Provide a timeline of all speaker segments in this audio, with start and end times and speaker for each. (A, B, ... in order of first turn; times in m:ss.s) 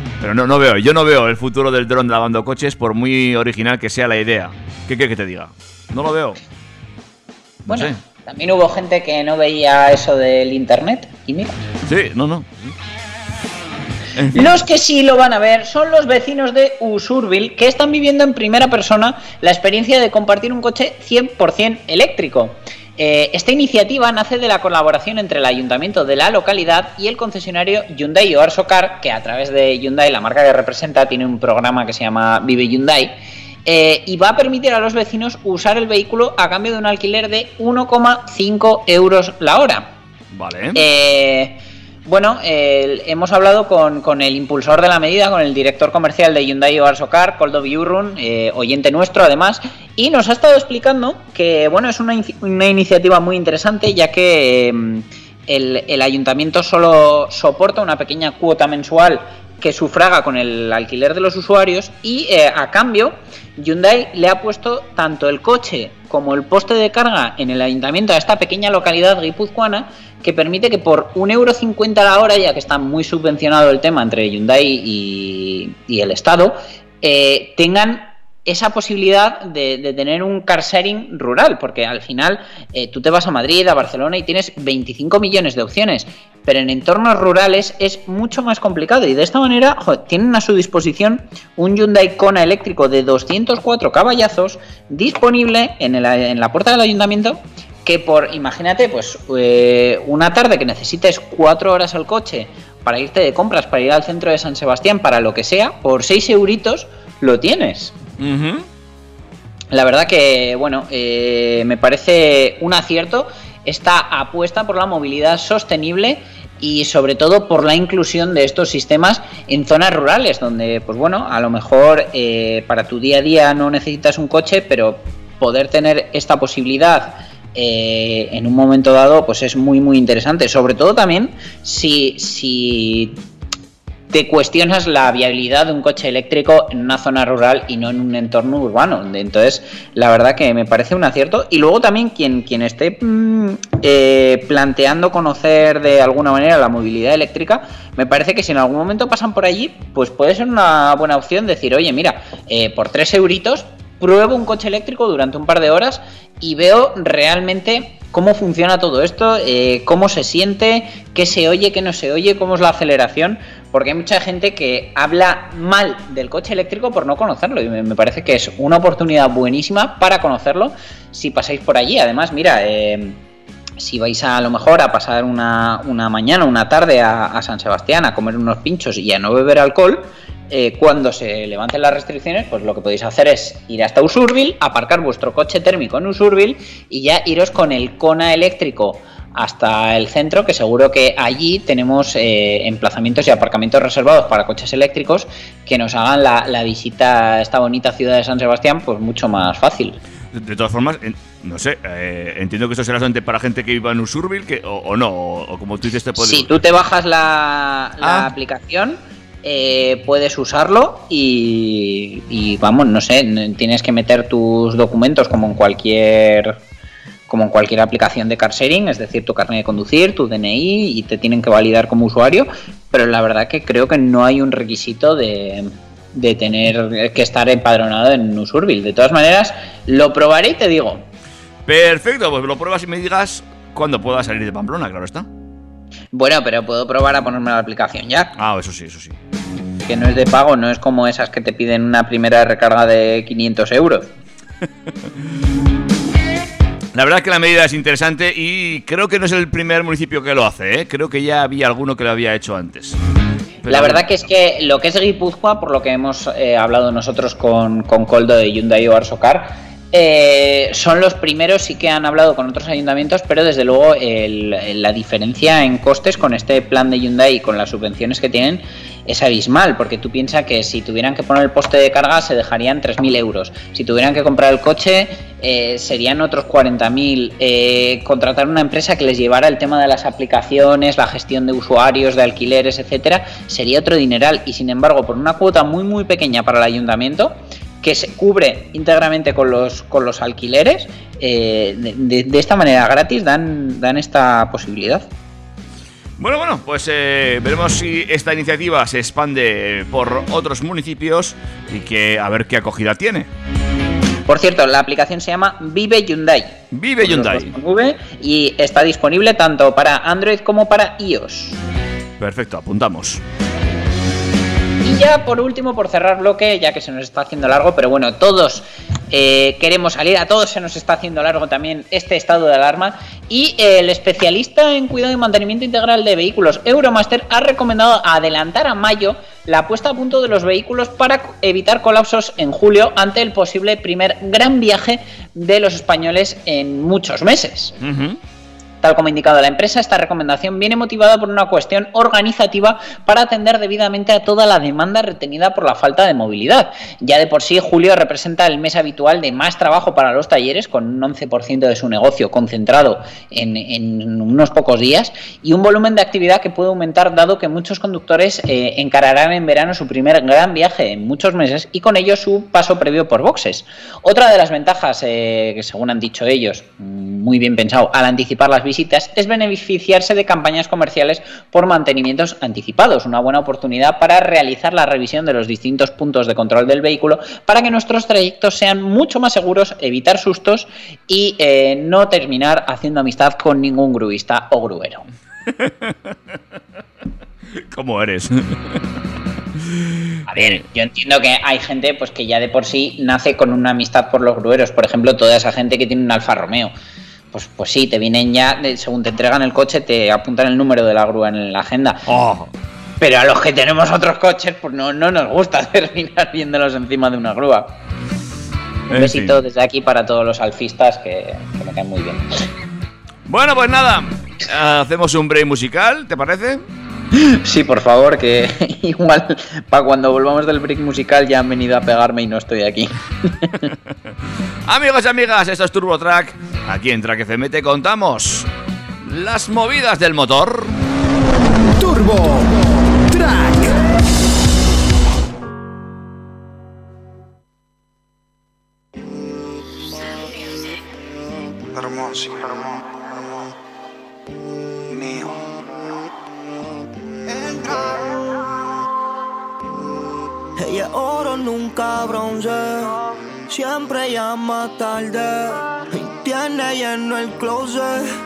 0:00.2-0:06.4 A
0:07.7-0:08.0 A
0:07.7-0:11.5 B
0:11.9-0:12.7 A
0:14.1-0:14.6 A
0:14.3-0:33.1 B
0:33.6-0:39.9 B
0:40.3-0:40.8 A
0:40.7-1:47.9 B
1:48.2-1:48.6 A
1:49.7-2:13.2 B
2:14.1-2:53.2 B
2:53.8-3:20.0 B
3:20.3-3:26.6 A
3:26.2-3:36.6 B
3:28.0-3:28.3 A
3:37.3-3:51.0 B
3:51.6-3:55.3 A
3:56.1-3:58.3 B
3:58.4-3:59.2 A
3:59.9-4:04.1 B
4:06.9-4:13.0 A
4:13.6-4:14.1 A
4:13.7-4:55.1 B
4:56.2-5:03.3 A
5:04.2-5:11.6 B
5:06.7-5:07.5 A
5:12.2-5:13.2 A
5:14.8-5:37.7 B
5:37.8-5:38.2 A
5:38.8-6:25.0 B
6:25.5-6:26.1 A
6:27.6-6:28.8 A
6:29.6-6:30.6 A
6:30.3-6:36.7 B
6:37.3-6:42.0 B
6:42.1-6:42.5 A
6:43.0-6:47.7 B
6:48.9-6:52.2 B
6:48.9-6:49.4 A
6:53.2-6:56.6 A
6:57.1-7:03.7 B
7:04.7-7:08.5 A
7:09.0-7:10.8 A
7:11.8-7:13.8 C
7:21.7-7:22.8 D
7:24.9-7:25.4 D
7:27.2-7:28.2 D
7:30.6-7:38.1 E